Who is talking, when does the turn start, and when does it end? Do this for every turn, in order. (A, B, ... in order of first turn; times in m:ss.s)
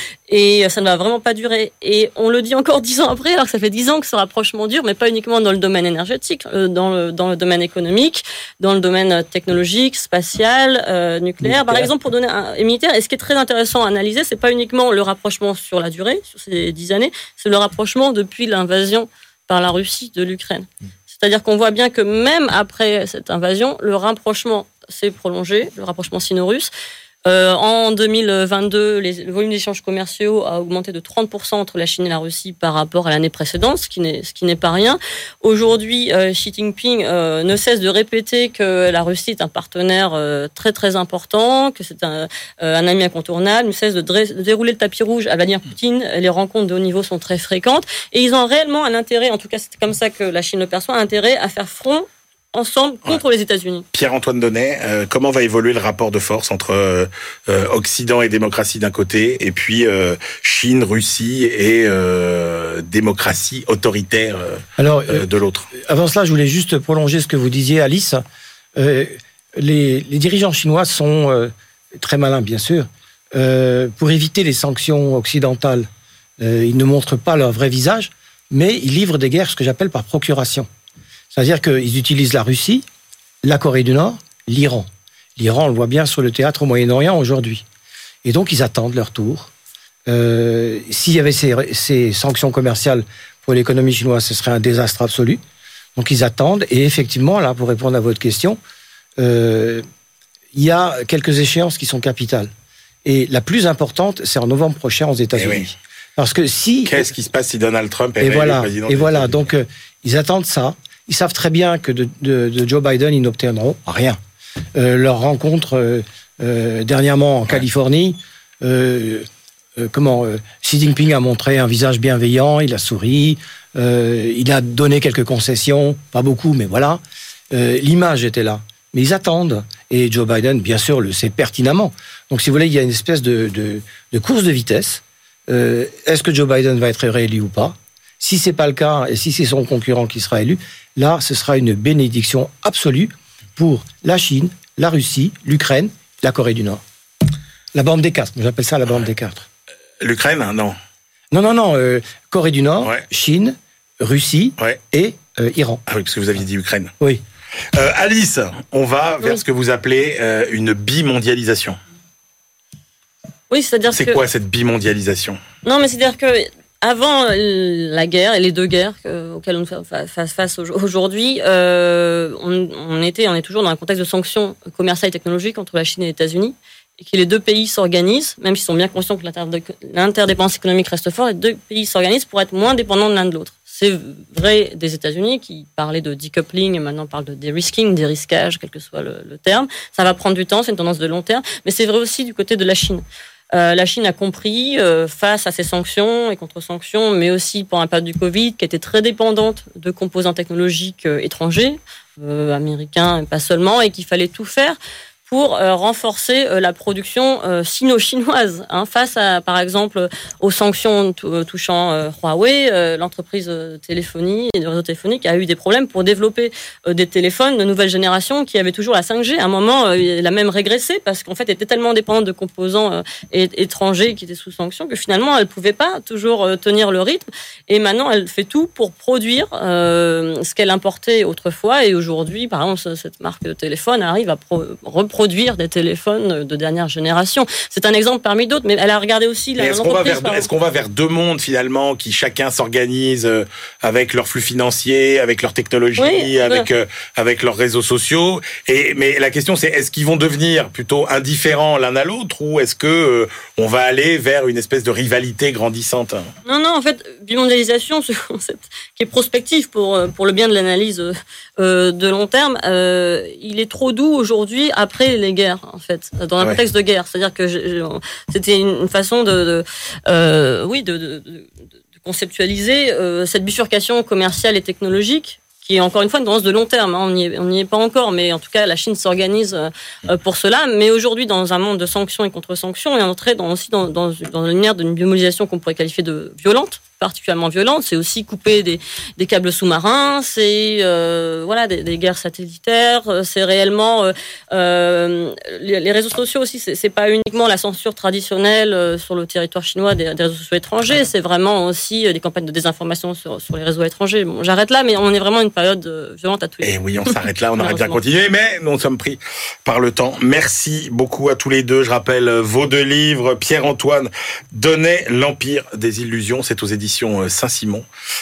0:00.3-0:26.7 A
0:11.6-0:11.9 B
0:27.2-0:53.8 A
0:53.9-1:05.7 C
1:04.8-1:08.2 B
1:08.8-1:15.9 B
1:16.4-1:20.7 B
1:21.3-1:22.8 B
1:23.4-1:27.6 B
1:28.2-1:29.5 B
1:30.1-1:35.4 B
1:36.0-1:38.6 B
1:39.2-1:39.8 B
1:40.5-1:42.5 B
1:43.0-1:47.1 B
1:45.4-1:45.7 C
1:46.9-1:49.4 C
1:48.2-1:54.2 B
1:54.8-2:26.8 B
2:27.7-2:29.5 B
2:30.0-2:30.8 C
2:31.3-2:35.8 B
2:35.9-2:36.9 C
2:37.7-2:41.8 C
2:43.5-2:44.2 A
2:43.9-2:45.4 C
2:45.6-4:00.5 A
3:59.6-4:16.3 C
4:06.0-4:06.7 A
4:16.5-4:31.5 A
4:32.0-5:08.0 A
5:06.6-5:17.8 C